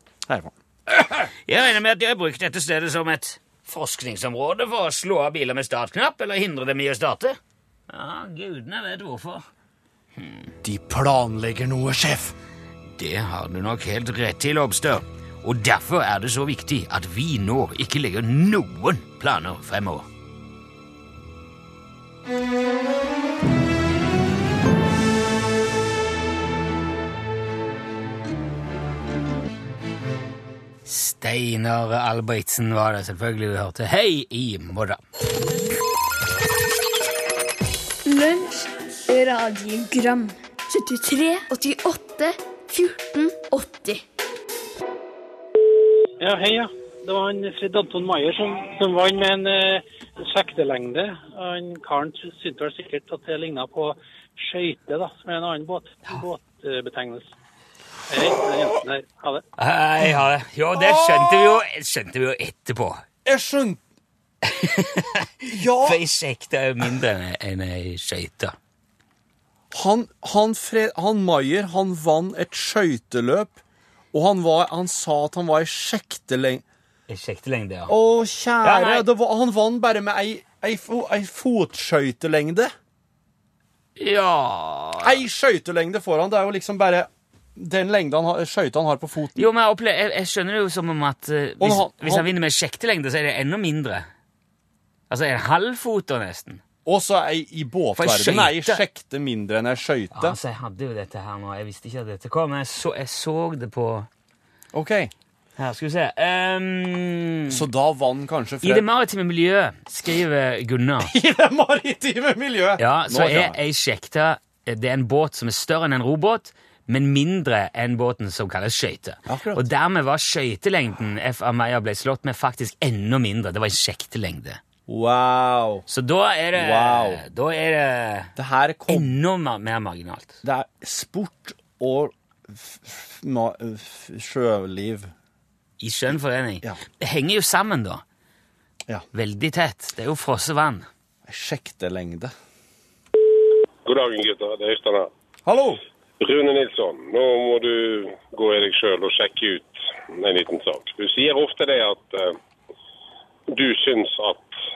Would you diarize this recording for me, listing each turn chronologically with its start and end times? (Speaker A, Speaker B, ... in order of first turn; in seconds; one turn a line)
Speaker A: 0.3-1.3
Speaker B: 1.4-7.4
Speaker B: 7.9-9.4
Speaker B: 10.2-10.5
Speaker A: 10.6-12.3
Speaker B: 13.0-20.1
Speaker B: 30.9-35.0
Speaker C: 38.0-44.0
Speaker D: 46.2-57.3
Speaker D: 58.1-59.4
Speaker B: 59.6-63.0
Speaker A: 60.7-61.6
Speaker A: 63.2-63.8
Speaker B: 64.4-68.5
Speaker A: 65.5-66.0
Speaker A: 69.7-73.6
Speaker A: 74.1-76.6
Speaker B: 77.1-77.9
Speaker A: 77.9-82.7
Speaker B: 78.6-79.1
Speaker B: 84.0-85.2
Speaker A: 85.0-89.5
Speaker B: 89.3-94.1
Speaker A: 91.6-92.3
Speaker B: 95.1-96.6
Speaker A: 96.8-100.4
Speaker B: 98.0-98.8
Speaker B: 100.1-104.1
Speaker A: 104.7-105.1
Speaker B: 105.6-107.7
Speaker A: 107.5-108.8
Speaker B: 108.6-111.1
Speaker A: 111.0-113.6
Speaker B: 112.8-124.6
Speaker A: 119.3-119.6
Speaker A: 124.9-125.8
Speaker B: 125.9-128.3
Speaker A: 126.5-127.2
Speaker A: 128.3-129.1
Speaker B: 128.9-130.4
Speaker A: 130.4-135.1
Speaker B: 135.8-138.0
Speaker B: 139.1-140.9
Speaker A: 141.2-142.3
Speaker E: 143.8-145.1
Speaker A: 145.4-145.8
Speaker E: 146.2-152.2
Speaker E: 153.6-154.4